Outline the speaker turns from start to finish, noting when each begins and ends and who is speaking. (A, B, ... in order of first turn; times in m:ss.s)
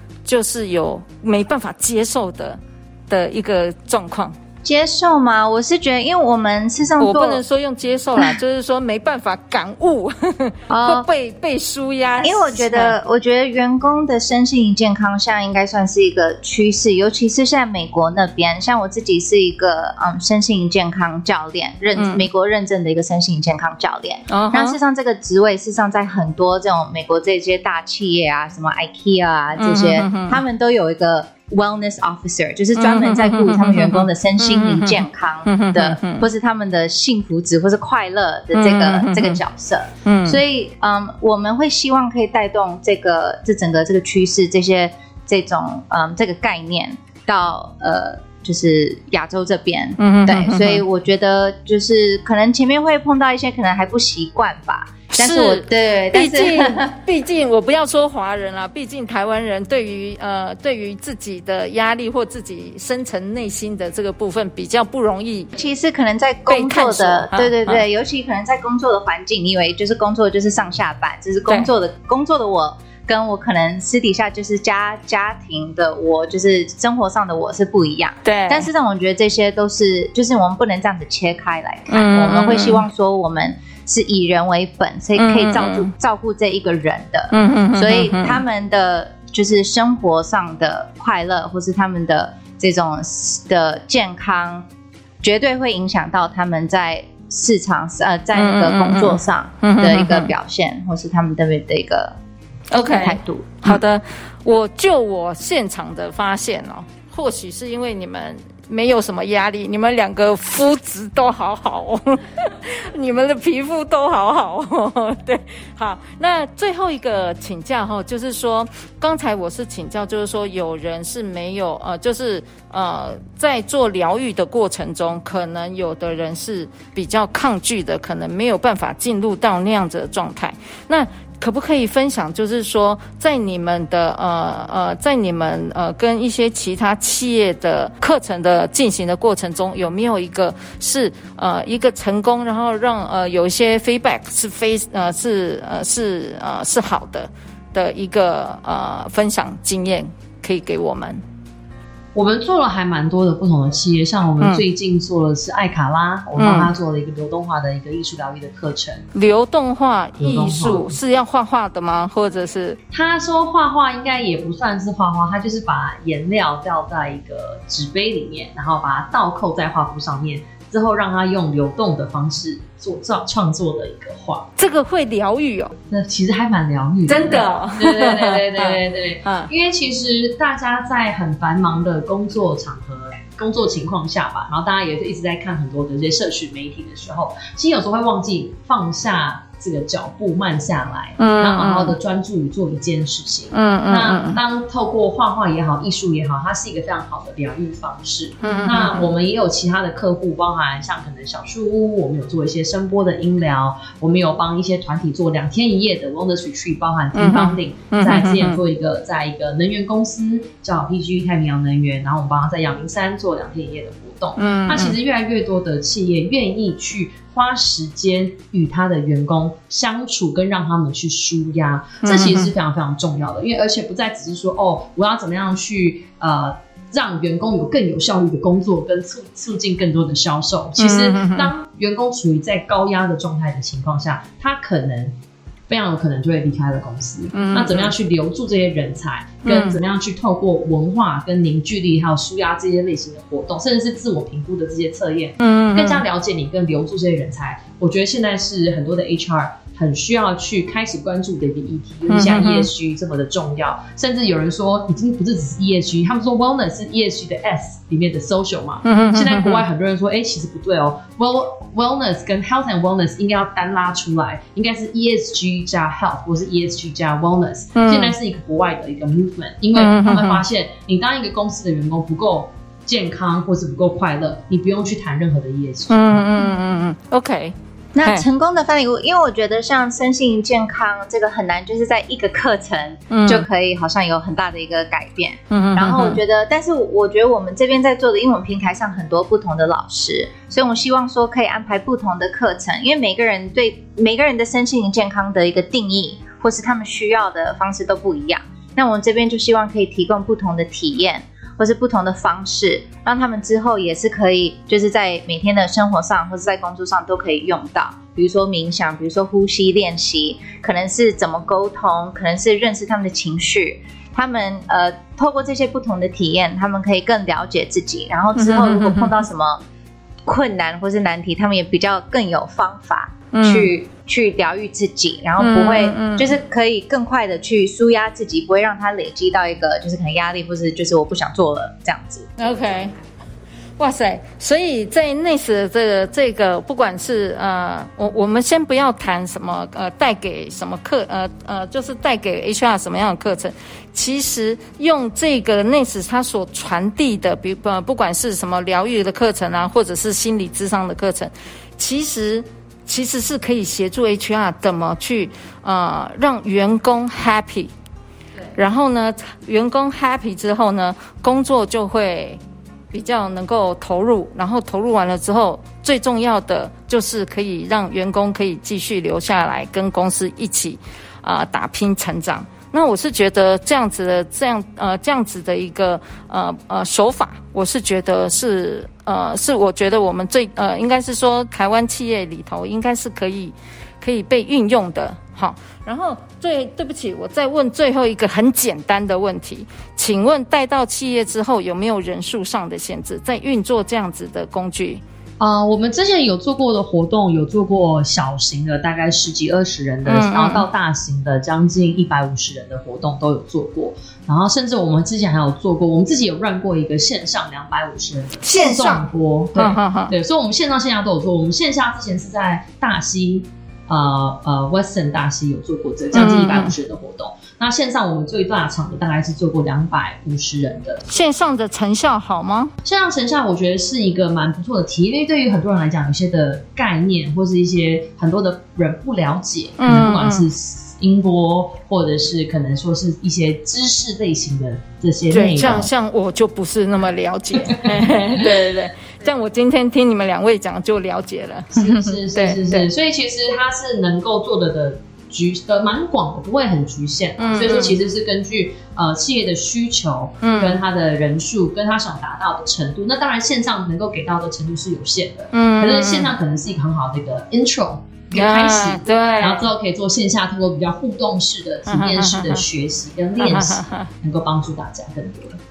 0:00.2-0:04.3 A
0:04.6-0:07.4 B
0:07.0-0:12.9 A
0:10.7-0:11.0 B
0:12.2-0:56.9 B
0:22.0-0:22.2 A
0:24.3-0:24.8 A
0:29.6-0:30.4 A
0:32.8-0:36.2 A
0:38.5-0:39.4 A
0:40.0-0:40.4 A
0:50.0-0:50.8 A
0:55.1-1:05.5 A
1:05.6-1:34.6 B
1:06.5-1:07.8 A
1:18.2-1:18.7 A
1:21.9-1:22.8 A
1:25.2-1:25.9 A
1:27.3-1:28.4 A
1:35.2-1:42.2 B
1:38.3-1:40.3 A
1:42.7-2:31.2 A
1:42.8-1:43.8 B
2:32.1-2:39.1 C
2:36.4-2:36.7 A
2:39.1-2:42.8 A
2:40.2-2:40.9 C
2:42.9-2:54.4 C
2:54.6-2:55.8 A
2:55.9-3:55.1 C
2:57.1-2:59.5 A
3:11.2-3:12.0 A
3:13.5-3:14.4 A
3:18.4-3:19.1 A
3:27.1-3:28.6 A
3:34.4-3:34.9 A
3:42.0-3:42.5 A
3:50.8-3:51.5 A
3:55.7-4:36.2 C
3:57.3-3:57.9 A
3:59.4-3:59.8 A
4:05.4-4:06.0 A
4:12.1-4:12.7 A
4:18.8-4:19.6 A
4:27.8-4:28.1 A
4:29.7-4:30.4 A
4:35.9-4:38.2 A
4:37.9-5:19.6 B
4:43.1-4:43.4 A
4:45.5-4:46.2 A
5:18.4-5:19.2 A
5:20.2-5:32.3 B
5:23.3-5:23.7 A
5:25.4-5:26.3 A
5:32.4-5:32.9 A
5:33.8-5:57.7 A
5:58.5-6:02.4 A
6:02.9-6:35.0 A
6:35.4-7:01.0 C
6:40.0-6:40.6 A
6:48.4-6:49.0 A
6:49.6-6:50.1 A
6:56.1-6:56.7 A
7:01.1-7:02.7 A
7:02.8-7:15.9 C
7:09.8-7:10.5 A
7:15.3-7:22.9 A
7:17.6-7:18.4 C
7:21.7-7:45.6 C
7:27.4-7:28.0 A
7:30.4-7:30.8 A
7:35.5-7:36.4 A
7:38.3-7:39.7 A
7:41.9-7:42.6 A
7:43.4-7:44.0 A